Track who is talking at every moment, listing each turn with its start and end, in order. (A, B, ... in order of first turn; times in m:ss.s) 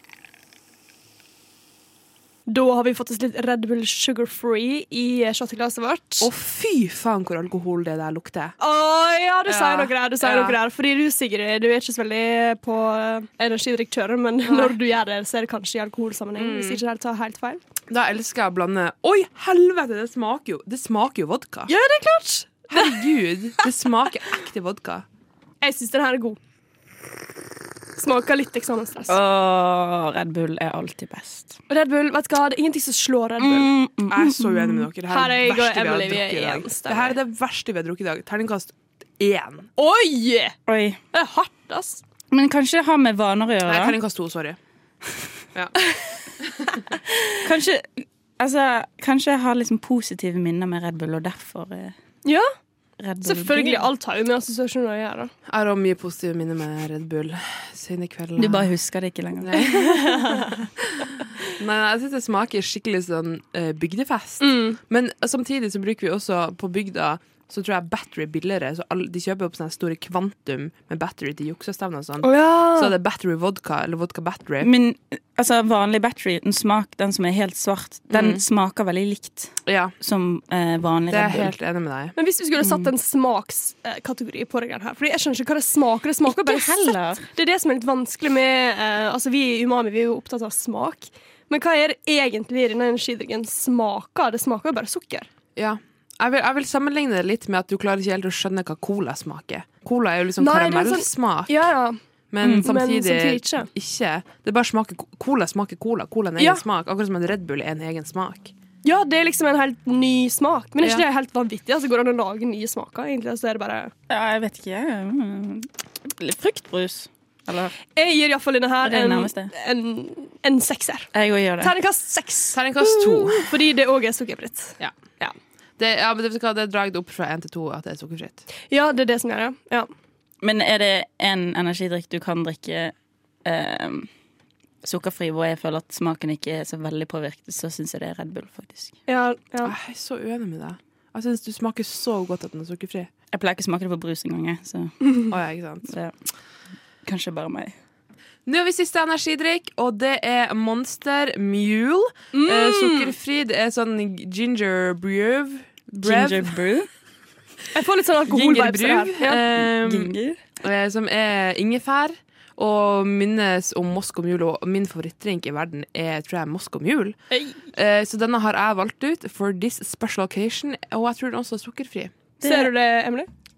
0:02.5-0:06.3 A
0:06.2-0:08.6 B
0:08.6-0:17.6 A
0:09.5-0:10.6 B
0:14.4-0:14.7 B
0:16.4-0:16.8 B
0:17.9-0:21.7 B
0:21.7-0:23.6 A
0:22.7-0:25.0 B
0:25.6-0:26.4 A
0:28.0-0:29.1 A
0:29.1-0:31.6 C
0:31.7-0:33.7 A
0:33.4-0:34.9 C
0:34.1-0:39.7 B
0:35.1-0:37.2 A
0:39.8-0:40.6 A
0:40.7-0:41.0 C
0:41.1-0:42.0 A
0:42.3-0:44.0 C
0:43.6-0:44.6 B
0:46.4-0:46.8 B
0:47.4-0:51.9 C
0:52.2-0:52.5 A
0:53.0-0:53.9 C
0:53.2-0:55.3 A
0:55.5-0:58.7 B
0:58.4-1:00.6 C
0:59.4-1:00.1 B
0:59.6-1:00.5 A
1:01.0-1:14.7 B
1:04.4-1:04.8 A
1:12.2-1:13.0 A
1:14.6-1:21.5 C
1:18.1-1:18.4 B
1:19.6-1:19.9 B
1:21.1-1:22.1 B
1:22.2-1:35.3 A
1:22.6-1:22.9 C
1:26.2-1:27.2 C
1:35.6-1:41.6 B
1:40.4-1:42.0 A
1:42.3-1:48.5 B
1:42.4-1:42.7 C
1:42.5-1:43.7 A
1:46.4-1:46.6 A
1:48.8-1:53.9 A
1:54.1-1:57.8 C
1:57.9-2:05.3 A
1:58.8-1:59.5 C
2:01.1-2:01.8 C
2:02.5-2:03.5 B
2:05.8-2:08.4 B
2:08.7-2:09.9 A
2:10.4-2:12.9 C
2:13.4-2:14.1 C
2:14.8-2:19.0 C
2:19.1-2:19.8 A
2:19.6-2:23.1 B
2:23.3-2:25.2 C
2:25.3-2:25.9 B
2:25.9-2:26.1 C
2:27.0-2:27.7 C
2:28.4-2:36.6 B
2:32.3-2:33.1 A
2:36.0-2:36.9 C
2:37.7-2:39.4 A
2:38.3-2:47.2 B
2:39.6-2:40.4 C
2:47.3-2:47.6 A
2:47.7-2:52.2 B
2:52.4-2:53.3 A
2:52.4-2:52.7 C